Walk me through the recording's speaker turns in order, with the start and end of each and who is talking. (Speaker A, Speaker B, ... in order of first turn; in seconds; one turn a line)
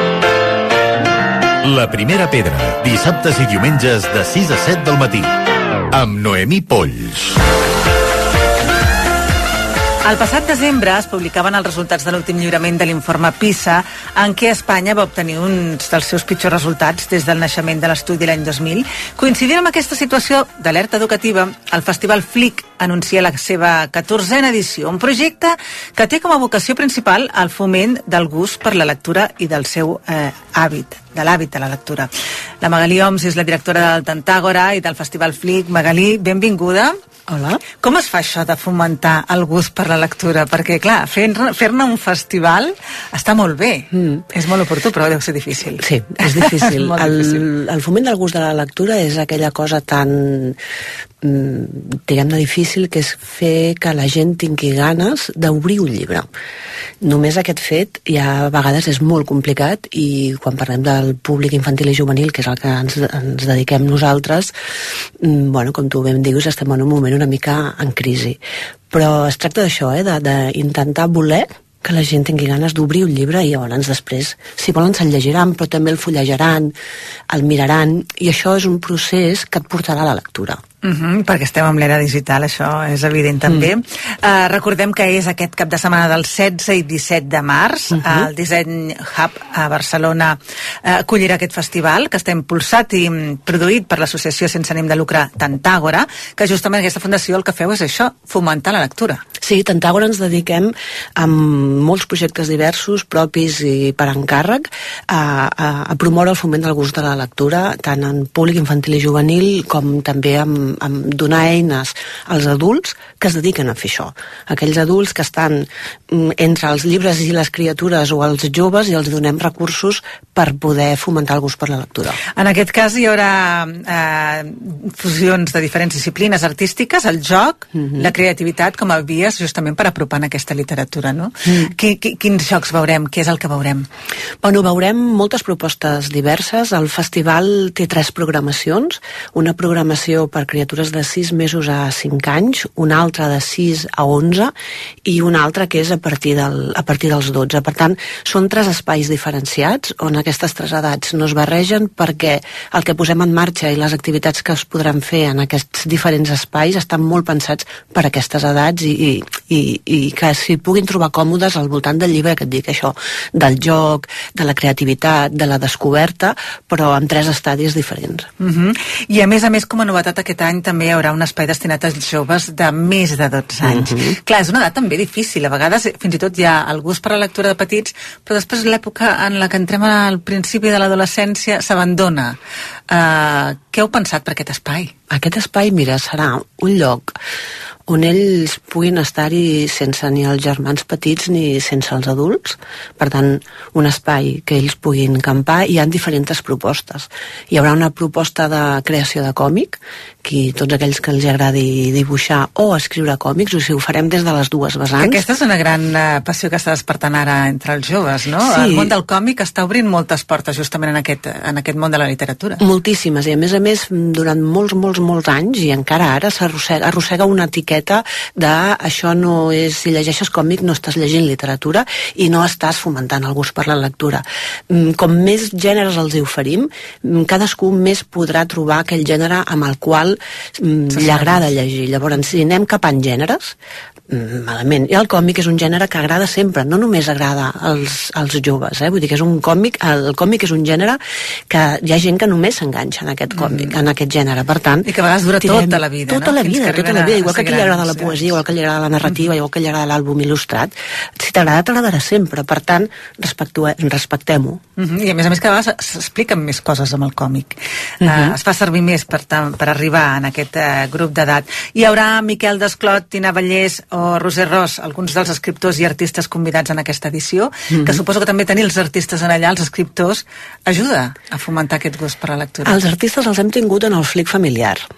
Speaker A: 1.6-5.3
Speaker A: 5.9-7.4
Speaker B: 10.0-32.1
Speaker B: 32.6-37.0
Speaker C: 37.3-37.6
Speaker B: 37.8-47.4
Speaker C: 43.9-44.2
Speaker C: 45.8-50.6
Speaker C: 51.2-56.3
Speaker C: 57.0-64.5
Speaker C: 65.2-76.8
Speaker C: 77.3-80.6
Speaker B: 80.8-99.2
Speaker C: 87.9-88.3
Speaker C: 99.4-122.2
Speaker B: 122.3-133.9
Speaker C: 127.7-128.1
Speaker C: 131.4-131.7
Speaker C: 134.4-168.3
Speaker B: 168.4-182.4
Speaker C: 173.6-174.2
Speaker B: 182.9-184.9
Speaker C: 185.1-187.2
Speaker C: 187.9-205.2
Speaker B: 205.0-212.6
Speaker C: 208.4-208.9
Speaker C: 212.6-233.6
Speaker B: 230.9-231.4
Speaker C: 234.1-244.9
Speaker B: 243.3-243.7
Speaker B: 244.8-248.3
Speaker C: 245.4-254.6
Speaker B: 254.8-272.7
Speaker C: 258.0-258.4
Speaker C: 267.7-268.0
Speaker C: 272.6-274.9